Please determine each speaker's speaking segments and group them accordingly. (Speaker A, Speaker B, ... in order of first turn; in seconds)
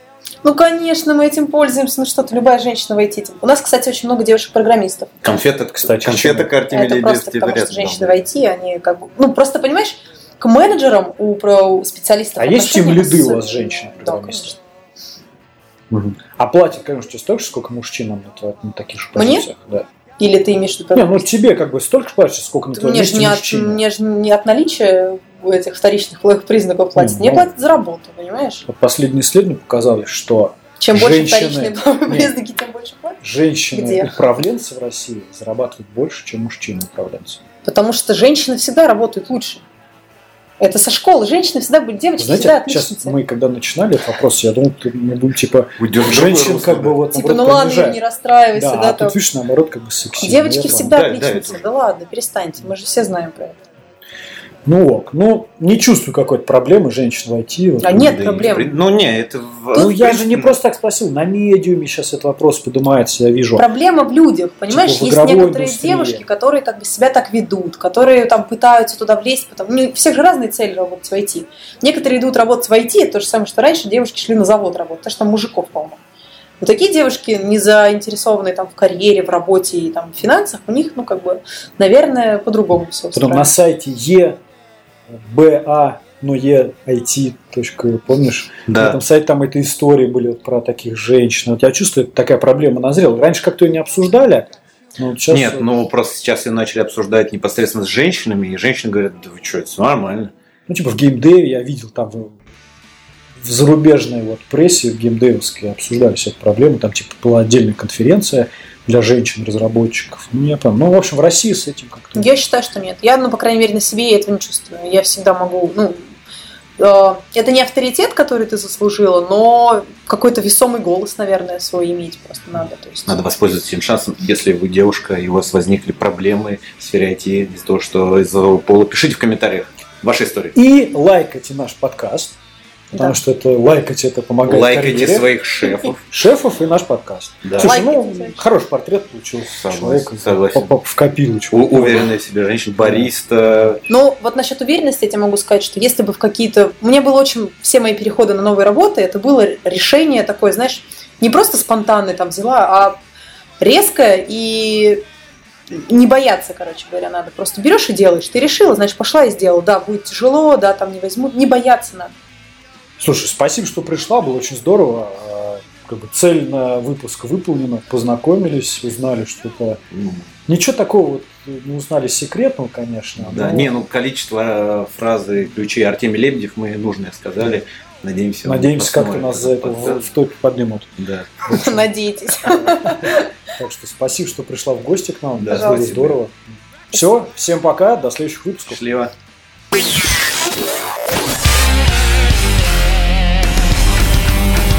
Speaker A: 0.4-5.1, 6.7-14.6, 19.2-19.5, 20.2-21.3, 22.8-28.7, 30.8-34.1, 37.6-39.6, 40.6-43.2, 47.1-49.2, 50.2-53.6, 57.8-58.7, 63.6-76.0, 76.6-83.5, 112.2-116.1, 116.8-123.2, 137.6-138.4, 143.9-153.0, 153.6-155.0, 155.7-162.1, 181.5-183.3, 185.5-185.8
Speaker B: 5.2-8.2, 45.8-47.0, 50.9-51.6, 57.9-60.5, 88.7-89.0, 95.3-100.3, 123.1-130.6, 134.4-136.0, 137.4-137.7, 139.5-140.8, 141.5-143.8, 169.9-170.2, 173.2-180.1, 181.0-181.5, 185.4-186.2, 188.7-189.1
Speaker C: 5.8-6.5, 12.4-14.6, 15.9-19.9, 20.9-23.8, 27.0-27.5, 28.7-32.4, 33.2-37.4, 42.2-48.0, 48.5-51.0, 54.7-58.2, 59.7-63.7, 64.7-66.2, 83.1-84.4, 85.1-95.7, 100.7-102.4, 103.4-112.3, 130.6-132.4, 132.9-135.3, 136.1-142.1, 163.0-169.8, 170.5-173.7, 178.4-181.0, 182.5-186.3, 186.9-188.8